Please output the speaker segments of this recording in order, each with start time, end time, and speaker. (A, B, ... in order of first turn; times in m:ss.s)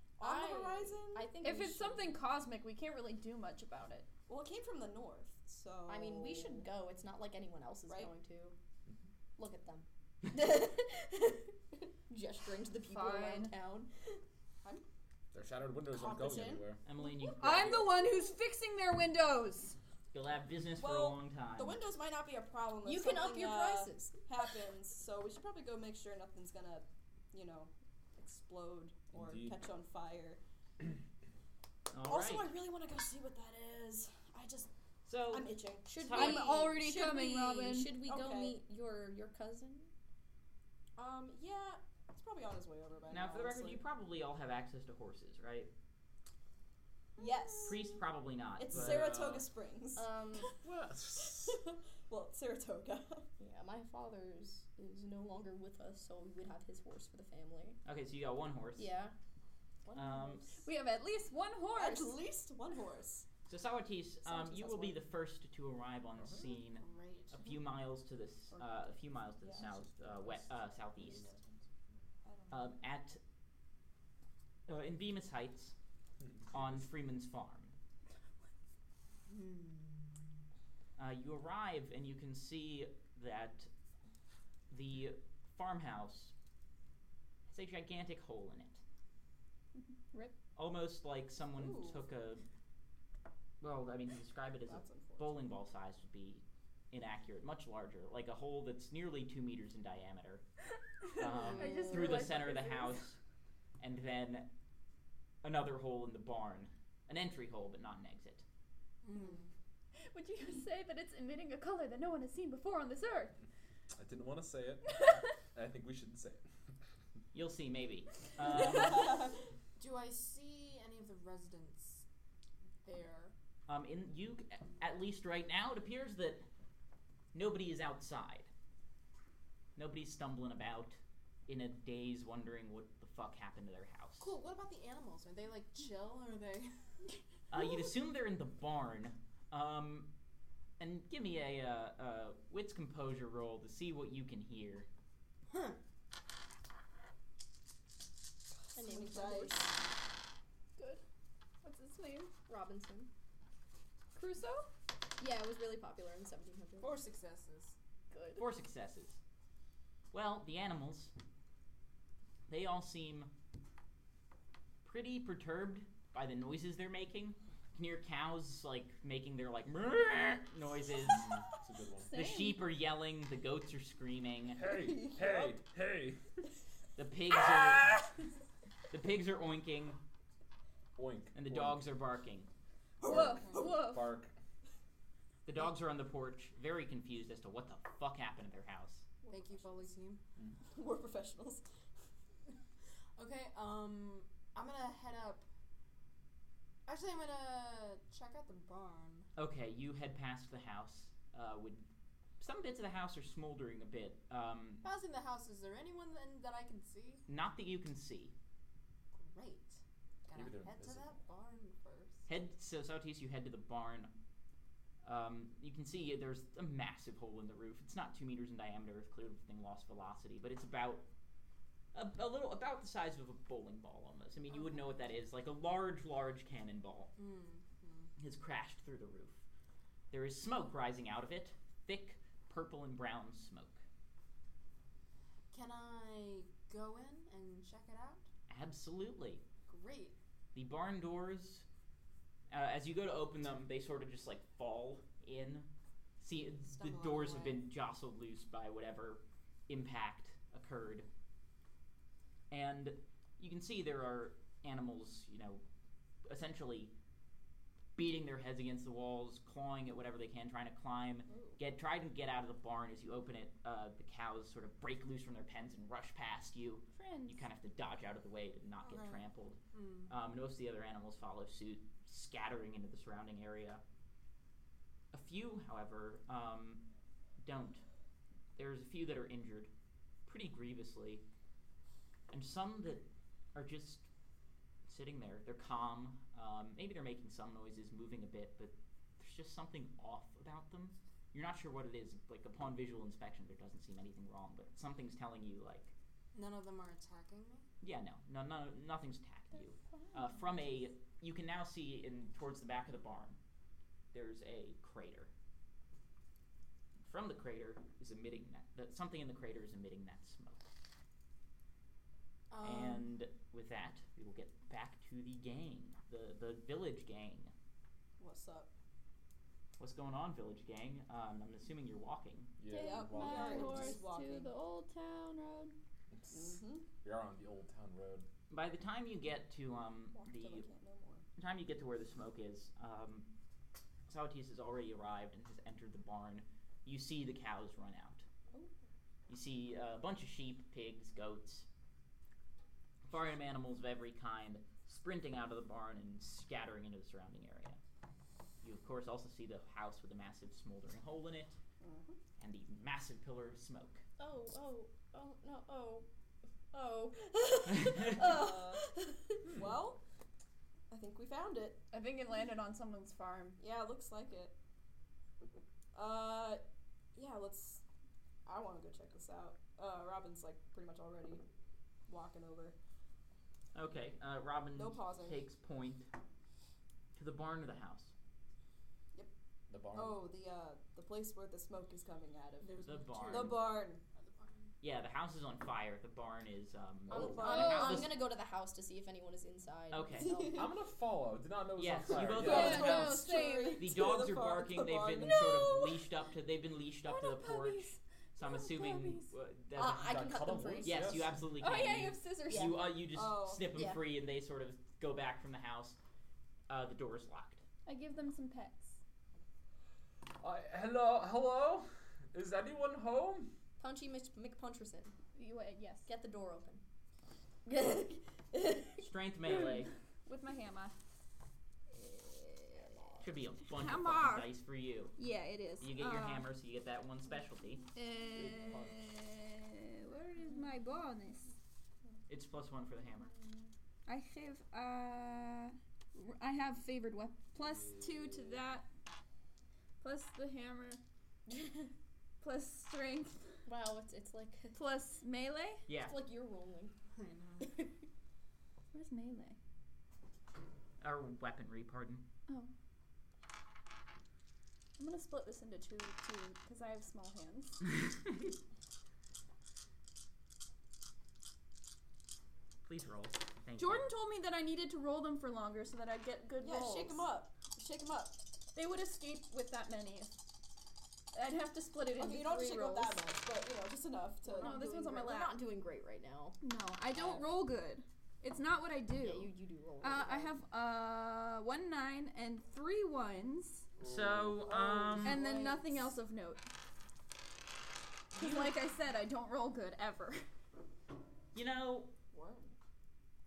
0:00.2-0:01.3 A
0:00.2-0:02.2 B
0:01.4-0:04.1 C
0:04.3-0:06.7 A
0:05.9-0:08.6 B
0:09.4-0:14.2 B
0:12.9-0:13.5 C
0:15.3-0:16.8 D
0:15.9-0:16.7 A
0:16.8-0:18.0 E
0:17.4-0:19.8 C
0:20.1-0:21.8 E
0:20.8-0:30.4 A
0:22.8-0:24.2 B
0:29.1-0:29.6 D
0:31.9-0:32.5 E
0:32.0-0:34.7 A
0:35.0-0:36.4 E
0:35.3-0:36.6 A
0:35.9-0:39.9 B
0:36.1-0:38.0 C
0:38.0-0:38.6 A
0:41.0-0:43.8 A
0:43.1-0:45.7 E
0:47.2-0:48.0 A
0:47.6-0:49.3 E
0:48.6-0:50.5 A
0:48.7-0:49.5 D
0:50.0-0:50.5 B
0:50.6-0:51.6 D
0:51.2-0:53.3 A
0:53.4-0:57.8 B
0:57.8-0:58.9 E
0:58.8-0:59.1 B
0:59.8-1:00.7 A
0:59.9-1:00.5 E
1:00.6-1:02.2 C
1:01.8-1:03.3 A
1:03.5-1:11.3 E
1:04.3-1:04.9 A
1:06.7-1:07.6 F
1:09.6-1:11.6 D
1:12.2-1:12.7 A
1:12.5-1:13.2 E
1:14.7-1:15.8 E
1:16.5-1:17.7 E
1:19.3-1:20.2 F
1:21.0-1:23.7 E
1:24.7-1:26.3 E
1:27.5-1:28.8 E
1:30.6-1:32.4 E
1:31.6-1:32.0 A
1:33.6-1:40.4 E
1:34.7-1:35.4 A
1:41.1-1:43.2 E
1:41.2-1:43.0 C
1:41.4-1:41.8 F
1:43.8-1:44.5 E
1:45.4-1:48.4 E
1:49.0-1:49.5 F
1:50.1-1:53.4 C
1:54.0-1:56.5 D
1:57.3-1:59.3 E
1:59.0-1:59.2 F
1:59.8-2:02.0 F
2:02.8-2:03.3 F
2:03.7-2:06.4 E
2:07.3-2:08.5 E
2:09.8-2:14.4 E
2:14.2-2:16.8 F
2:17.5-2:20.1 E
2:20.8-2:24.9 E
2:25.5-2:25.8 F
2:28.7-2:29.8 A
2:28.8-2:29.8 B
2:31.6-2:32.3 C
2:32.5-2:33.1 B
2:34.2-2:34.7 C
2:35.2-2:37.0 B
2:36.8-2:37.8 F
2:38.1-2:38.5 C
2:38.4-2:39.2 E
2:40.1-2:41.1 E
2:42.5-2:43.3 E
2:44.8-2:51.3 E
2:51.0-2:52.1 D
2:52.0-2:52.6 C
2:52.1-2:54.6 E
2:54.6-2:56.2 D
2:54.6-2:55.6 A
2:57.0-2:58.0 E
2:58.9-3:00.0 E
3:01.0-3:01.9 D
3:01.4-3:02.5 E
3:03.0-3:04.0 A
3:03.0-3:04.2 C
3:03.0-3:04.3 D
3:05.5-3:09.1 E
3:09.3-3:10.2 F
3:10.7-3:11.6 A
3:13.2-3:15.4 F
3:16.9-3:19.3 F
3:19.4-3:21.9 E
3:22.4-3:24.9 E
3:24.8-3:27.2 F
3:27.3-3:28.3 E
3:29.1-3:32.3 F
3:30.3-3:31.2 D
3:32.3-3:34.1 E
3:35.0-3:41.0 E
3:41.9-3:47.1 E
3:47.2-3:48.1 F
3:48.2-3:49.4 E
3:50.1-3:53.8 E
3:55.5-3:58.3 F
3:58.5-3:59.4 E
3:59.7-4:00.2 F
4:00.5-4:01.6 E
4:02.5-4:05.7 E
4:06.2-4:11.1 E
4:06.7-4:07.7 F
4:12.5-4:15.6 E
4:16.3-4:16.9 E
4:18.0-4:33.8 E
4:26.9-4:27.4 C
4:28.8-4:30.1 F
4:35.1-4:36.8 E
4:37.4-4:37.8 E
4:38.6-4:39.7 E
4:40.3-4:41.2 E
4:42.3-4:44.1 E
4:44.9-4:55.9 E
4:56.3-4:57.7 F
4:57.8-5:03.4 E
4:59.9-5:00.4 C
5:04.1-5:05.3 E
5:07.0-5:10.6 E
5:12.5-5:13.1 F
5:12.6-5:17.5 E
5:18.2-5:18.7 A
5:19.8-5:22.6 E
5:22.6-5:24.0 D
5:22.7-5:25.7 C
5:22.7-5:24.5 A
5:26.1-5:28.3 D
5:26.3-5:26.9 A
5:28.5-5:30.7 E
5:30.1-5:31.2 A
5:31.4-5:33.3 E
5:34.1-5:38.3 E
5:39.3-5:41.7 E
5:43.1-5:47.8 E
5:48.6-5:51.6 E
5:51.8-5:52.2 A
5:52.4-5:54.0 E
5:54.2-5:56.1 B
5:56.7-5:59.5 B
5:57.7-5:58.2 E
5:58.2-5:58.8 A
5:59.5-6:00.0 A
6:00.9-6:01.8 A
6:01.9-6:03.6 C
6:03.6-6:04.6 A
6:05.9-6:06.6 A
6:07.2-6:07.8 A
6:08.5-6:11.4 A
6:12.1-6:12.8 A
6:13.7-6:16.1 E
6:14.8-6:15.4 A
6:17.2-6:18.1 E
6:19.7-6:20.2 D
6:19.9-6:22.8 A
6:22.6-6:24.7 F
6:22.8-6:23.6 E
6:23.3-6:24.0 A
6:24.8-6:28.2 E
6:27.1-6:27.5 D
6:27.1-6:28.1 A
6:27.1-6:30.7 B
6:29.9-6:30.3 E
6:30.2-6:30.7 A
6:30.5-6:32.9 D
6:31.8-6:40.2 E
6:32.4-6:35.7 A
6:32.4-6:33.9 C
6:37.0-6:39.3 C
6:39.8-6:42.9 B
6:39.8-6:41.5 D
6:40.8-6:46.0 E
6:41.6-6:42.7 C
6:43.1-6:43.7 A
6:43.7-6:44.0 B
6:46.7-6:47.6 E
6:47.9-6:49.0 C
6:50.4-6:53.5 D
6:53.8-6:55.2 B
6:55.4-6:56.1 C
6:56.1-6:56.8 B
6:57.7-6:59.0 B
6:59.0-6:59.9 E
7:00.2-7:01.0 C
7:02.2-7:02.9 C
7:03.2-7:05.2 E
7:03.7-7:04.5 C
7:05.2-7:06.5 C
7:05.8-7:07.8 E
7:08.0-7:11.5 C
7:08.3-7:09.0 D
7:12.3-7:13.3 E
7:14.1-7:18.8 C
7:17.7-7:18.6 D
7:20.0-7:21.0 C
7:21.5-7:21.9 B
7:22.4-7:23.5 C
7:23.7-7:24.8 B
7:24.7-7:25.8 C
7:25.9-7:26.2 E
7:25.9-7:27.0 B
7:27.1-7:27.8 F
7:28.9-7:29.6 C
7:31.0-7:32.3 E
7:35.0-7:37.8 C
7:38.0-7:38.3 E
7:42.8-7:44.1 E
7:43.8-7:47.3 C
7:46.6-7:48.4 A
7:48.7-7:50.3 C
7:51.3-7:53.1 C
7:52.2-7:54.8 A
7:52.2-7:53.2 B
7:54.5-7:56.6 B
7:54.5-7:55.6 C
7:56.6-8:03.9 C
7:59.2-8:00.6 B
8:04.0-8:05.2 D
8:04.0-8:05.4 E
8:05.2-8:06.0 B
8:05.2-8:06.7 C
8:08.3-8:10.5 C
8:11.5-8:12.1 E
8:12.3-8:12.7 A